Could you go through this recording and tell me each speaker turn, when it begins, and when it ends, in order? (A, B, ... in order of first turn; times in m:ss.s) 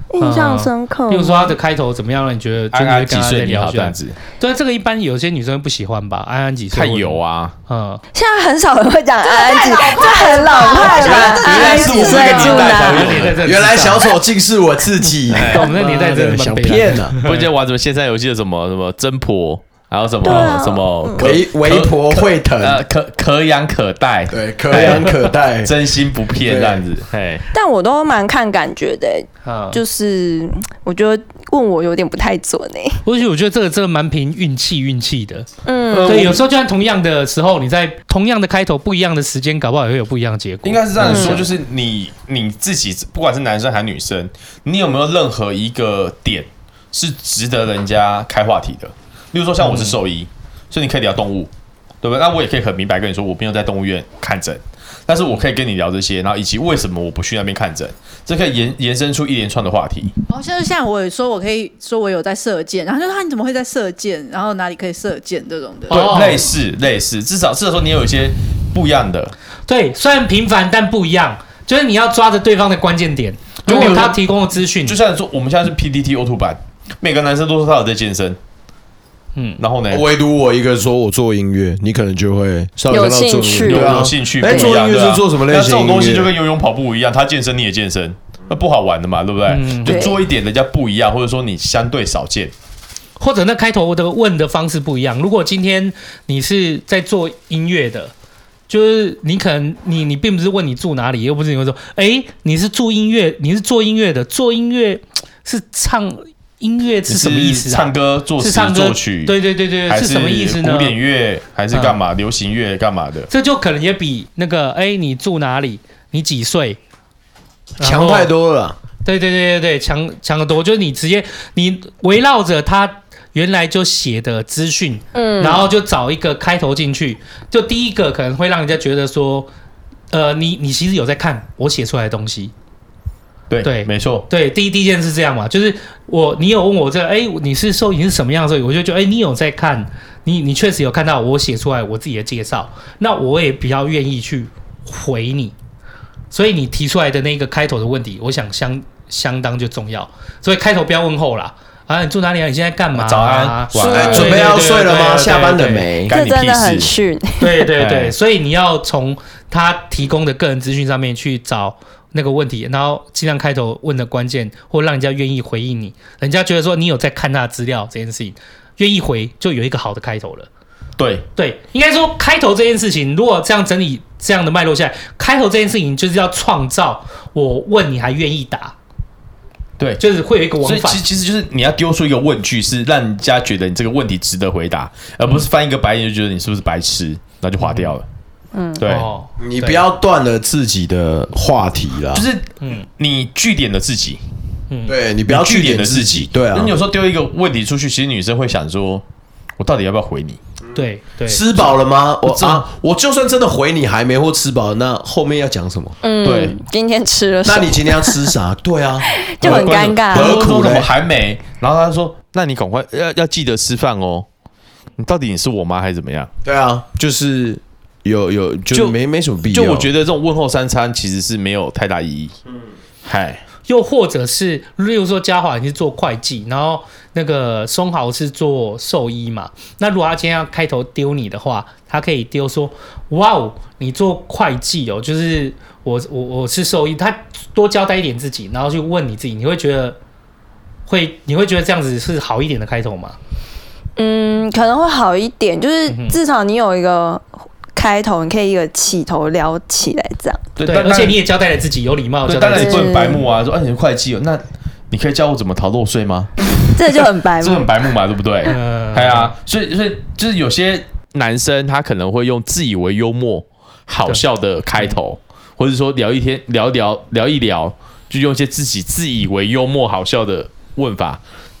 0:00.1-0:01.5 A
0:00.2-0:08.0 B
0:02.7-0:04.2 C
0:06.7-0:07.6 C
0:08.1-0:13.3 A
0:09.2-0:12.9 D
0:10.9-0:12.0 E
0:11.1-0:13.4 C
0:12.6-0:14.1 B
0:13.4-0:17.2 E
0:15.3-0:15.8 C
0:15.5-0:17.4 B
0:17.2-0:27.4 C
0:20.2-0:21.3 A
0:21.2-0:22.8 E
0:24.3-0:25.7 E
0:26.4-0:26.8 E
0:27.5-0:33.0 A
0:29.4-0:29.8 B
0:33.0-0:35.5 B
0:35.6-0:36.4 A
0:35.9-0:36.4 C
0:36.0-0:41.4 B
0:40.6-0:51.5 C
0:41.0-0:41.4 A
0:49.6-0:50.0 B
0:52.0-1:00.1 C
1:00.3-1:06.4 D
1:05.9-1:09.3 C
1:05.9-1:06.4 B
1:09.7-1:15.0 B
1:13.6-1:14.2 C
1:13.7-1:14.0 A
1:14.8-1:18.4 C
1:19.4-1:19.6 B
1:19.6-1:20.0 C
1:19.9-1:26.3 E
1:22.9-1:24.7 A
1:23.6-1:32.5 C
1:29.5-1:30.0 B
1:29.8-1:30.2 A
1:33.2-1:38.1 B
1:38.7-1:51.0 B
1:47.1-1:53.3 C
1:51.7-1:52.0 B
1:53.3-1:56.8 B
1:57.8-1:58.8 E
1:57.8-1:58.3 B
1:59.0-2:09.5 B
2:05.1-2:05.6 A
2:10.1-2:12.5 B
2:13.5-2:14.3 C
2:13.6-2:25.5 B
2:26.3-2:35.9 B
2:32.9-2:34.6 C
2:33.8-2:34.1 A
2:33.8-2:36.1 E
2:36.0-2:37.5 A
2:36.1-2:36.9 C
2:37.4-2:50.5 B
2:37.8-2:38.1 C
2:51.0-2:51.2 C
2:51.4-2:58.7 B
3:00.0-3:01.0 B
3:00.6-3:08.0 C
3:07.6-3:07.9 B
3:08.5-3:08.8 A
3:08.8-3:09.1 C
3:08.8-3:09.8 B
3:09.4-3:12.2 E
3:12.1-3:14.2 C
3:12.6-3:12.8 B
3:14.7-3:14.9 B
3:14.9-3:16.7 E
3:15.3-3:19.0 C
3:19.6-3:20.4 C
3:20.7-3:21.8 B
3:21.3-3:25.9 E
3:22.3-3:22.6 B
3:26.0-3:28.3 A
3:26.2-3:26.6 C
3:27.4-3:30.9 E
3:29.1-3:30.3 A
3:29.4-3:34.2 C
3:35.0-3:36.3 C
3:36.4-3:39.9 E
3:38.7-3:42.3 C
3:43.0-3:43.4 C
3:43.7-4:00.0 B
4:00.9-4:03.2 B
4:04.0-4:10.5 A
4:05.9-4:06.2 B
4:10.6-4:11.2 C
4:10.6-4:12.8 B
4:12.2-4:31.2 C
4:12.5-4:13.2 A
4:16.8-4:17.7 A
4:18.5-4:19.3 B